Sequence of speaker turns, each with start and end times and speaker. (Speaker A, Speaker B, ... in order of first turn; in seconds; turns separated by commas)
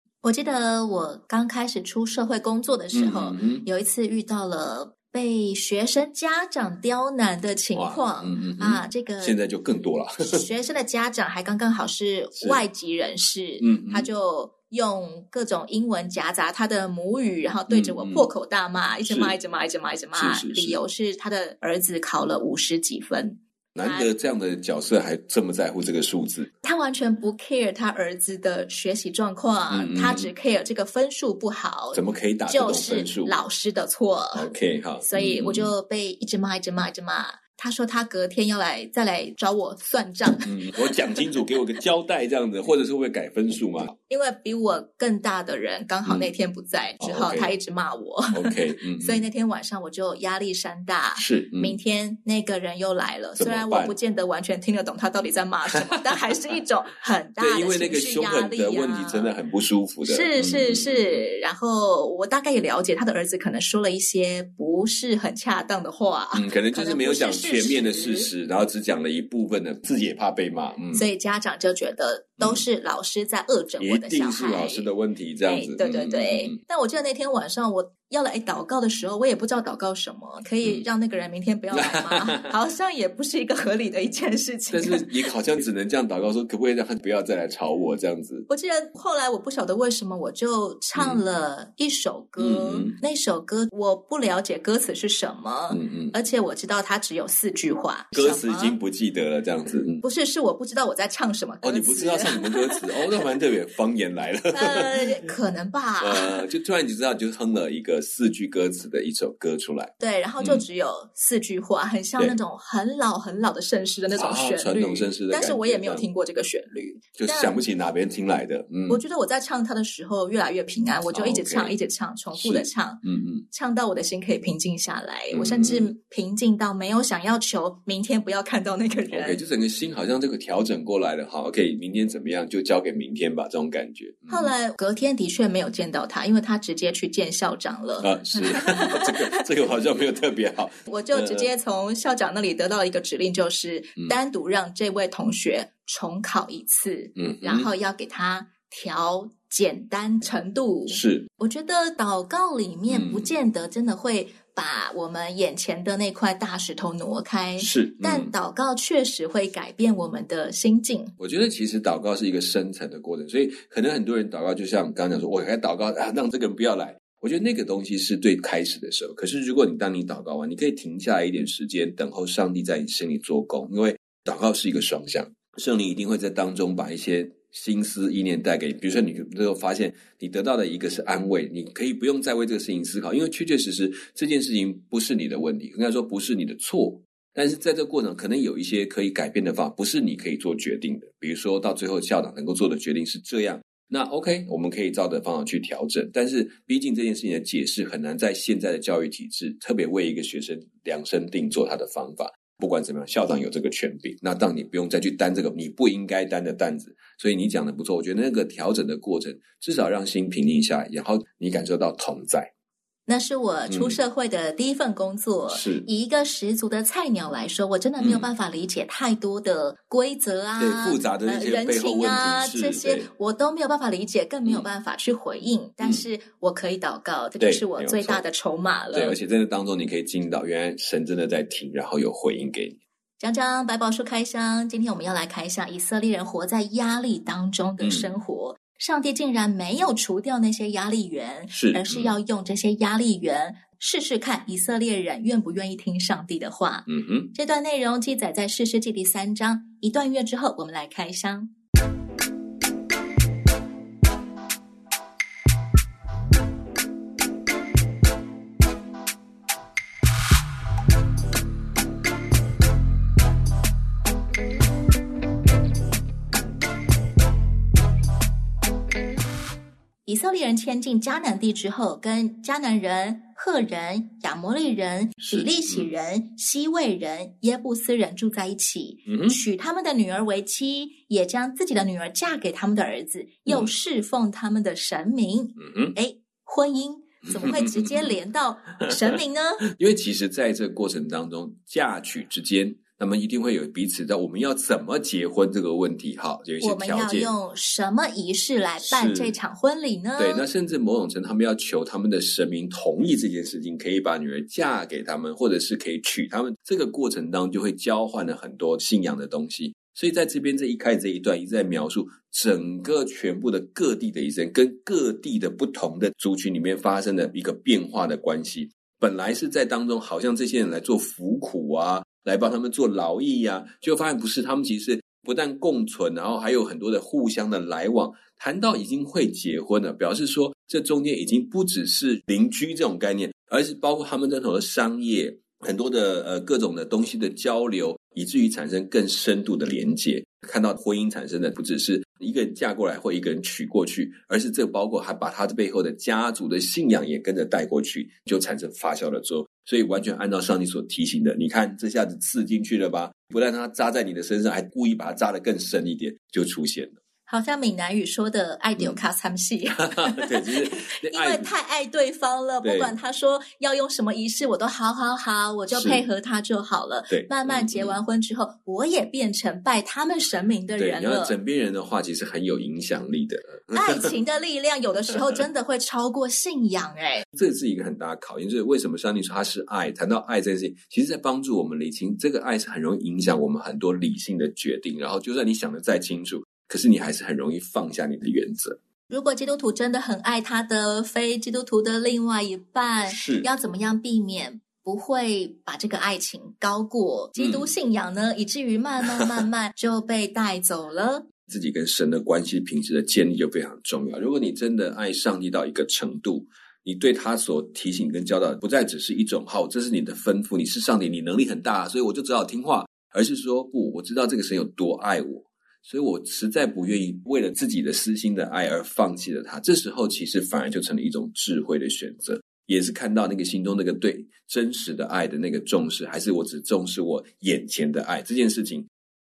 Speaker A: 0.2-9.4, Speaker B: 2.9-3.6, Speaker B: 7.8-10.4, Speaker A: 10.2-24.1, Speaker B: 12.3-12.6, Speaker B: 13.6-14.1, Speaker B: 17.7-18.3, Speaker B: 19.0-19.4, Speaker B: 20.1-20.8, Speaker B: 23.7-26.5, Speaker A: 26.6-34.5, Speaker B: 29.7-30.3, Speaker B: 31.9-33.4, Speaker B: 34.3-35.7, Speaker A: 35.0-40.5, Speaker B: 40.5-43.9, Speaker A: 44.1-59.3, Speaker B: 47.0-47.5, Speaker B: 48.3-49.2, Speaker B: 51.1-51.8, Speaker B: 53.4-54.0, Speaker B: 55.7-56.2, Speaker B: 57.4-61.2, Speaker A: 60.0-68.3, Speaker B: 66.3-71.1, Speaker A: 70.9-74.9, Speaker B: 72.4-72.6, Speaker B: 73.8-76.6, Speaker A: 75.5-85.1, Speaker B: 81.7-82.5, Speaker B: 84.7-88.5, Speaker A: 88.5-98.8, Speaker B: 90.9-91.2, Speaker B: 92.4-93.0, Speaker B: 95.7-96.1, Speaker B: 98.1-100.0, Speaker A: 100.0-102.8, Speaker B: 101.6-105.1, Speaker A: 104.5-106.4, Speaker B: 106.0-110.6, Speaker A: 110.0-117.5, Speaker B: 114.1-116.0, Speaker B: 117.2-119.0, Speaker A: 118.9-129.4, Speaker B: 121.1-121.7, Speaker B: 122.3-123.4, Speaker B: 125.3-125.9, Speaker B: 129.1-134.5, Speaker A: 134.3-139.4, Speaker B: 138.0-141.5, Speaker A: 140.9-161.1, Speaker B: 147.2-147.7, Speaker B: 150.9-151.3, Speaker B: 152.9-153.3, Speaker B: 157.6-158.3, Speaker B: 161.2-212.5, Speaker A: 213.1-229.2, Speaker B: 213.7-214.0, Speaker B: 215.5-215.9, Speaker B: 218.0-218.3, Speaker B: 220.6-223.1, Speaker B: 227.4-228.2, Speaker B: 228.9-232.8, Speaker A: 233.2-251.5, Speaker B: 237.8-238.1, Speaker B: 241.5-242.1, Speaker B: 246.9-247.3, Speaker A: 270.1-289.6, Speaker B: 275.2-275.9, Speaker B: 279.1-279.4, Speaker B: 285.6-285.9, Speaker B: 287.2-288.2, Speaker B: 288.9-297.3, Speaker A: 296.6-300.4, Speaker B: 298.8-299.3, Speaker B: 300.2-357.0, Speaker A: 357.3-371.4, Speaker B: 359.8-361.5, Speaker B: 362.6-362.9, Speaker B: 365.7-366.0, Speaker B: 367.1-368.0, Speaker B: 370.8-374.1, Speaker A: 373.7-377.2, Speaker B: 377.3-388.8, Speaker A: 389.1-401.2, Speaker B: 393.1-393.5, Speaker B: 397.4-397.7, Speaker B: 401.5-428.9